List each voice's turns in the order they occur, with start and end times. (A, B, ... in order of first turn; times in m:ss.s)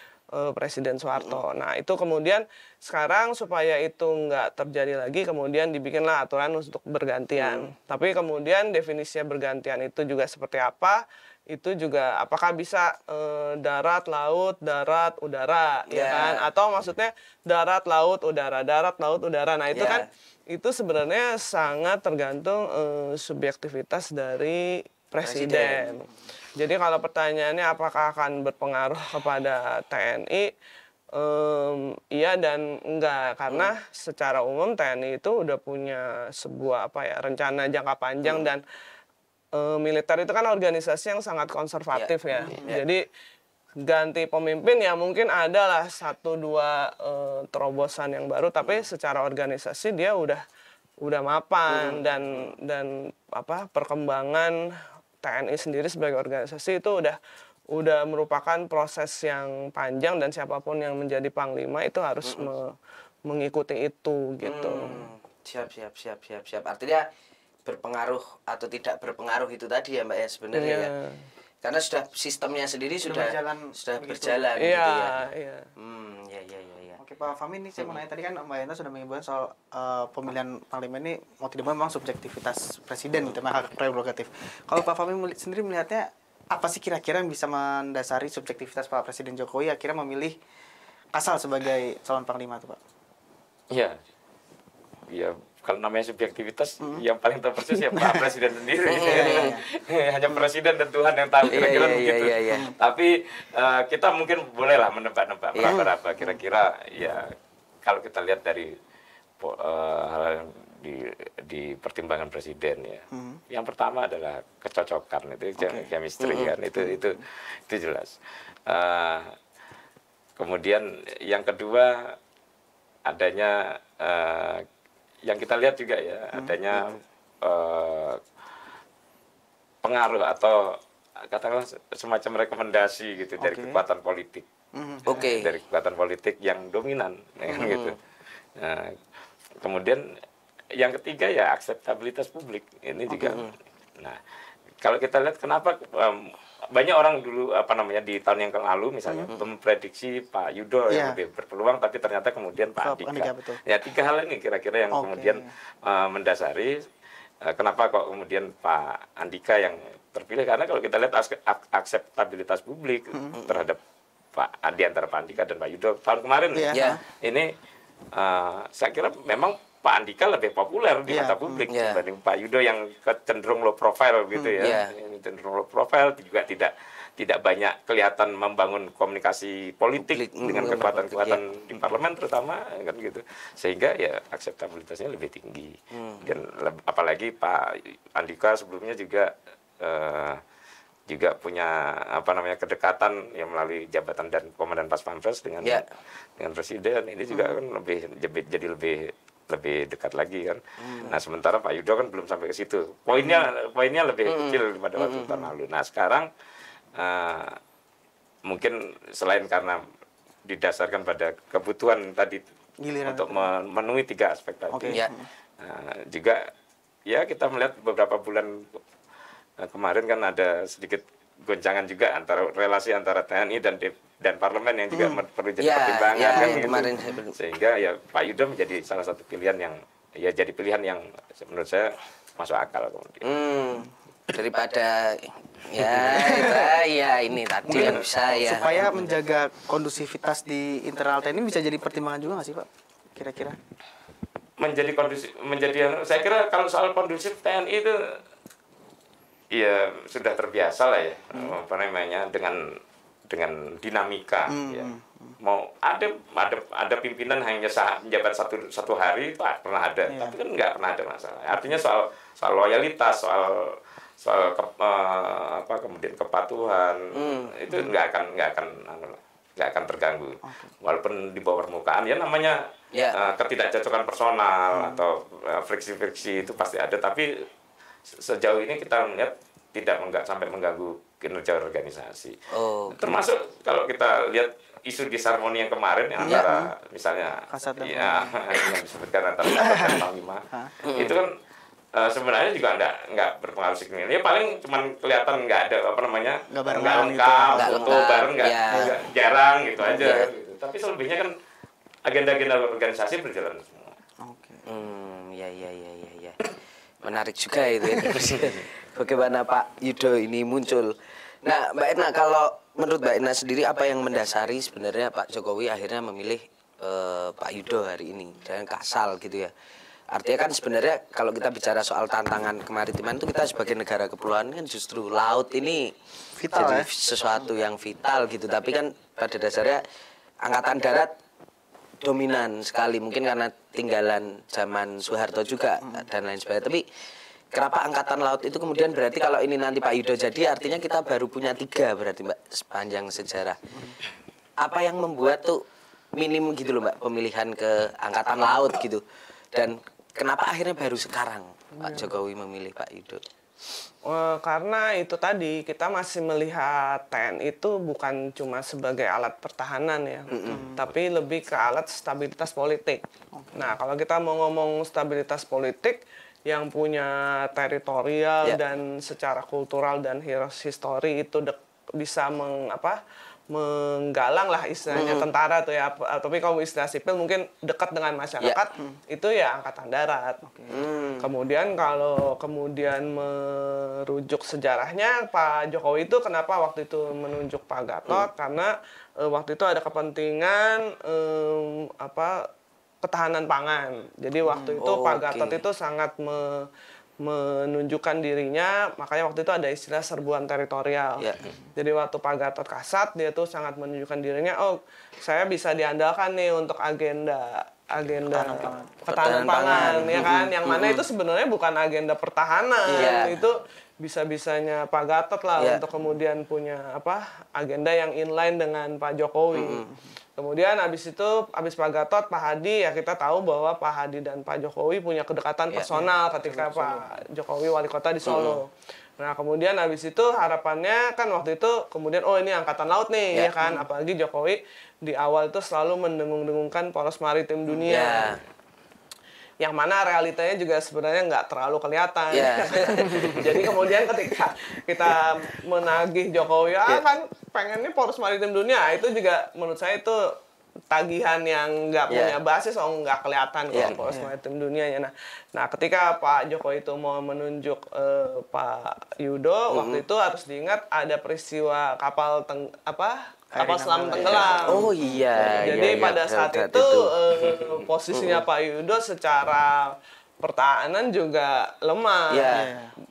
0:00.3-0:30.5 A
0:01.2-0:01.4 B
0:07.4-0:07.7 B
0:15.9-0:16.4 B
0:19.7-0:20.0 B
0:25.2-0:25.9 B
0:31.1-0:38.6 A
0:38.2-0:38.5 B
0:39.5-0:43.0 A
0:41.9-0:42.8 B
0:43.8-0:50.4 A
0:51.0-0:54.6 A
0:51.7-0:52.4 B
0:55.2-0:57.2 A
0:57.7-1:05.1 A
1:02.2-1:02.5 B
1:04.4-1:07.1 B
1:07.6-1:10.9 B
1:10.5-1:11.2 A
1:11.6-1:15.1 B
1:13.0-1:14.5 C
1:14.6-1:15.6 A
1:15.8-1:17.0 B
1:17.0-1:30.4 C
1:31.1-1:32.8 C
1:33.7-1:34.0 D
1:35.1-1:47.3 D
1:37.9-1:38.3 C
1:38.9-1:39.6 B
1:39.0-1:39.6 C
1:41.5-1:42.7 B
1:45.6-1:46.4 C
1:47.8-1:48.7 D
1:49.4-1:58.2 D
1:53.1-1:53.4 C
1:55.6-1:55.9 C
1:56.2-1:56.5 B
1:58.7-1:59.3 D
2:00.4-2:02.2 D
2:03.0-2:04.6 D
2:05.2-2:08.2 D
2:06.3-2:07.0 C
2:09.8-2:14.5 D
2:13.4-2:13.8 C
2:14.8-2:15.3 C
2:15.1-2:15.5 B
2:15.1-2:18.0 D
2:17.5-2:18.0 B
2:18.6-2:19.0 D
2:19.6-2:20.0 D
2:20.8-2:24.2 D
2:23.1-2:23.5 B
2:24.8-2:36.7 D
2:30.9-2:31.2 C
2:32.8-2:33.6 C
2:34.9-2:35.5 C
2:37.4-2:43.8 D
2:44.3-2:47.5 D
2:46.5-2:47.0 C
2:46.7-2:47.0 B
2:48.1-3:10.4 D
2:51.1-2:51.7 C
2:51.7-2:52.0 B
2:54.6-2:54.9 B
3:00.0-3:01.4 B
3:05.9-3:06.3 B
3:11.1-3:15.8 D
3:16.4-3:26.3 D
3:17.3-3:17.6 C
3:20.9-3:21.2 C
3:23.2-3:23.5 C
3:24.2-3:25.3 B
3:25.2-3:25.5 C
3:27.0-3:27.6 D
3:28.5-3:29.8 D
3:30.4-3:32.4 D
3:32.8-3:33.5 C
3:33.0-3:35.0 D
3:34.7-3:35.3 C
3:35.6-3:36.4 D
3:37.1-3:38.8 D
3:39.6-3:53.2 D
3:44.9-3:45.2 C
3:45.6-3:47.3 B
3:46.3-3:47.2 C
3:53.2-3:58.9 B
3:55.8-3:56.8 C
3:57.7-4:03.6 C
3:57.7-3:58.0 D
4:04.6-4:07.9 D
4:09.5-4:12.6 D
4:13.3-4:14.9 D
4:14.5-4:15.4 C
4:15.4-4:32.6 D
4:20.1-4:20.3 C
4:27.1-4:27.5 B
4:27.7-4:27.9 C
4:30.4-4:30.7 C
4:33.1-4:37.3 D
4:34.7-4:35.0 C
4:38.1-4:42.4 D
4:42.5-4:43.2 B
4:42.9-4:51.3 D
4:46.2-4:46.7 C
4:47.5-4:48.7 C
4:49.5-4:50.7 C
4:50.8-4:51.2 B
4:51.9-5:01.3 D
4:56.5-4:58.0 C
4:57.5-4:58.9 B
4:59.8-5:00.3 B
5:02.0-5:03.9 D
5:04.2-5:04.6 C
5:04.7-5:06.4 B
5:07.0-5:19.5 B
5:07.9-5:08.6 D
5:20.1-5:25.9 B
5:26.4-5:26.9 C
5:26.5-5:29.8 B
5:30.4-5:31.1 B
5:32.0-5:36.8 B
5:35.8-5:36.1 C
5:37.5-5:43.6 B
5:44.6-5:45.6 B
5:46.2-5:49.0 B
5:49.5-5:53.2 B
5:51.8-5:52.0 A
5:54.1-6:03.0 A
6:00.3-6:00.7 B
6:00.5-6:00.9 C
6:03.3-6:03.7 C
6:03.5-6:13.0 A
6:13.5-6:20.4 A
6:14.9-6:15.3 B
6:20.4-6:20.7 C
6:20.7-6:21.2 B
6:21.2-6:32.4 A
6:33.0-6:36.6 A
6:34.5-6:34.8 C
6:34.8-6:35.6 B
6:37.2-6:59.8 A
6:48.3-6:48.9 C
6:49.1-6:51.0 B
6:49.7-6:50.5 C
6:52.9-6:53.3 C
6:52.9-6:53.4 B
6:59.5-6:59.9 B
7:00.4-7:18.4 A
7:05.9-7:07.1 C
7:08.2-7:08.6 B
7:13.3-7:13.8 B
7:17.7-7:18.4 B
7:19.6-7:30.2 A
7:22.3-7:23.8 B
7:30.9-7:44.9 A
7:32.1-7:32.4 B
7:33.8-7:34.1 D
7:39.7-7:40.0 B
7:43.5-7:45.7 C
7:44.1-7:47.1 B
7:45.6-7:52.5 A
7:47.4-7:47.7 D
7:48.1-7:48.4 B
7:52.3-7:52.7 B
7:52.5-7:52.9 C